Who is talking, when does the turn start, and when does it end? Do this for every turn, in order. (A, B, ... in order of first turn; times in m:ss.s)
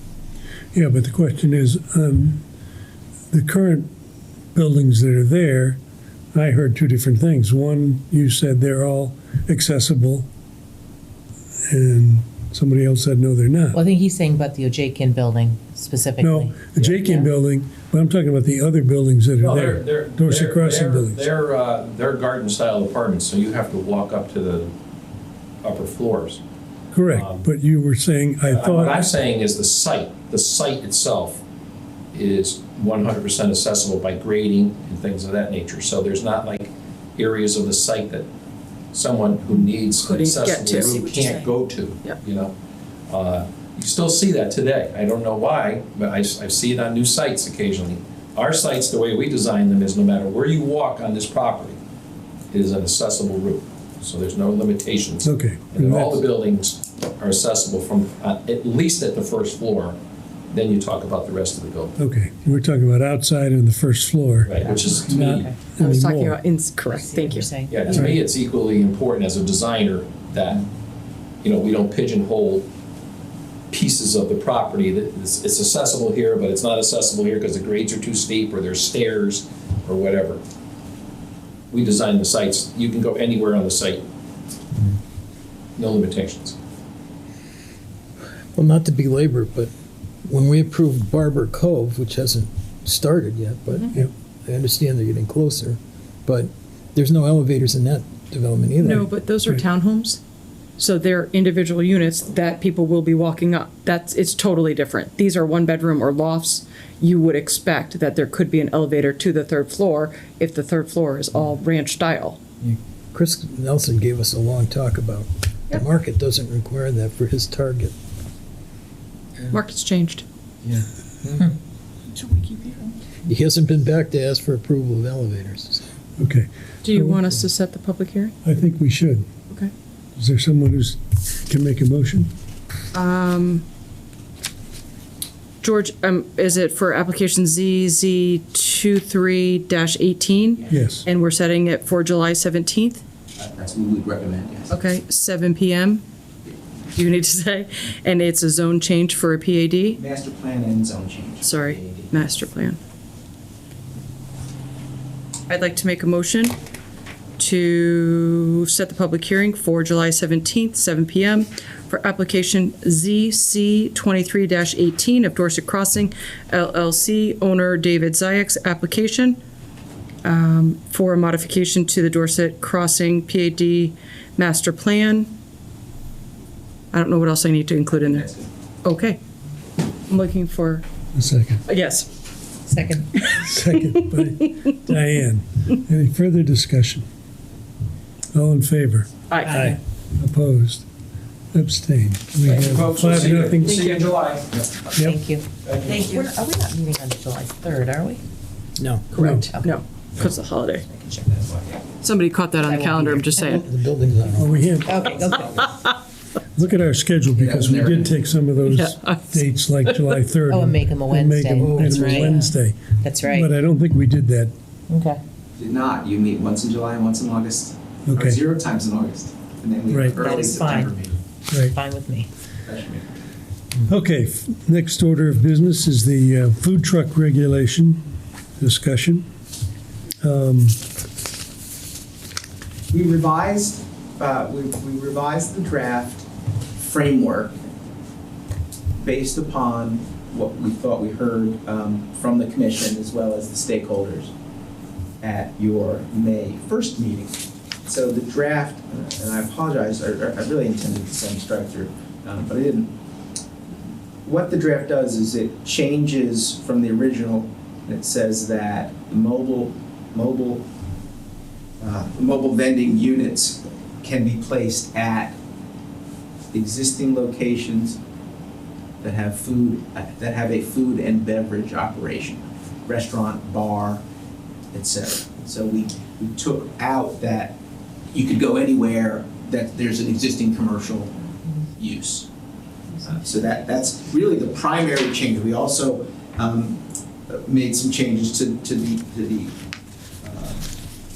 0:00.7-0:02.4 A
0:03.3-0:03.9 A
0:04.5-0:05.8 A
0:06.3-0:10.3 A
0:11.7-0:13.8 A
0:13.7-0:17.3 B
0:16.2-0:21.2 A
0:19.4-0:24.7 C
0:25.6-0:26.4 C
0:26.9-0:29.1 A
0:27.1-0:27.4 C
0:28.5-0:31.4 C
0:32.1-0:38.3 C
0:38.9-0:42.5 C
0:40.0-0:41.0 D
0:40.5-0:41.6 B
0:43.1-0:51.8 C
0:52.5-1:00.0 C
0:55.2-0:56.3 A
1:00.5-1:02.0 C
1:02.0-1:06.4 A
1:04.4-1:05.5 C
1:05.8-1:07.5 D
1:06.8-1:08.0 B
1:07.7-1:10.6 C
1:07.9-1:08.2 A
1:11.4-1:12.7 C
1:13.7-1:20.4 C
1:21.7-1:24.0 C
1:25.8-1:26.6 C
1:28.5-1:29.7 E
1:30.2-1:39.1 E
1:33.7-1:34.0 D
1:38.8-1:40.2 D
1:40.8-1:52.4 D
1:52.6-1:58.0 E
1:59.5-2:00.2 D
2:00.6-2:01.4 E
2:02.1-2:03.0 D
2:03.3-2:05.9 E
2:06.2-2:07.2 A
2:06.8-2:08.3 D
2:08.4-2:09.2 A
2:10.2-2:12.3 A
2:12.9-2:13.6 D
2:15.6-2:23.0 D
2:20.7-2:21.0 A
2:23.4-2:24.8 F
2:24.7-2:26.0 D
2:26.9-2:30.0 D
2:29.9-2:32.1 F
2:31.4-2:32.8 D
2:35.5-2:36.5 D
2:37.4-2:49.4 D
2:50.2-2:55.3 D
2:56.9-2:58.3 D
2:58.0-2:58.4 F
2:58.8-2:59.2 D
3:00.1-3:00.8 D
3:01.2-3:01.6 A
3:01.6-3:02.1 D
3:02.7-3:03.3 B
3:03.2-3:04.7 D
3:03.3-3:07.0 A
3:08.3-3:10.8 A
3:09.3-3:09.8 D
3:11.5-3:13.8 A
3:12.4-3:14.7 C
3:13.6-3:14.1 D
3:14.8-3:18.2 B
3:14.9-3:15.2 A
3:15.6-3:16.0 C
3:18.8-3:19.1 E
3:19.1-3:20.8 D
3:19.2-3:19.5 A
3:19.5-3:19.8 B
3:20.9-3:21.9 F
3:22.0-3:23.7 D
3:22.6-3:23.4 B
3:23.1-3:25.0 E
3:24.4-3:24.9 A
3:24.8-3:25.8 B
3:26.6-3:34.5 A
3:27.4-3:28.2 F
3:28.7-3:30.1 D
3:30.4-3:33.5 B
3:31.6-3:32.4 E
3:34.9-3:35.2 B
3:35.6-3:41.2 F
3:38.1-3:38.4 A
3:39.9-3:40.2 A
3:40.2-3:40.9 B
3:41.5-3:41.8 A
3:41.7-3:42.3 B
3:42.6-3:43.0 F
3:43.9-3:48.0 A
3:48.6-3:49.3 A
3:50.2-3:50.8 A
3:52.9-3:56.2 F
3:56.8-3:57.6 F
3:59.0-4:04.3 F
4:05.2-4:12.9 F
4:14.2-4:20.6 F
4:21.8-4:25.4 F
4:26.5-4:28.0 F
4:29.0-4:34.0 F
4:34.7-4:37.6 F
4:38.1-4:42.3 F
4:43.0-4:49.6 F
4:50.2-4:50.7 F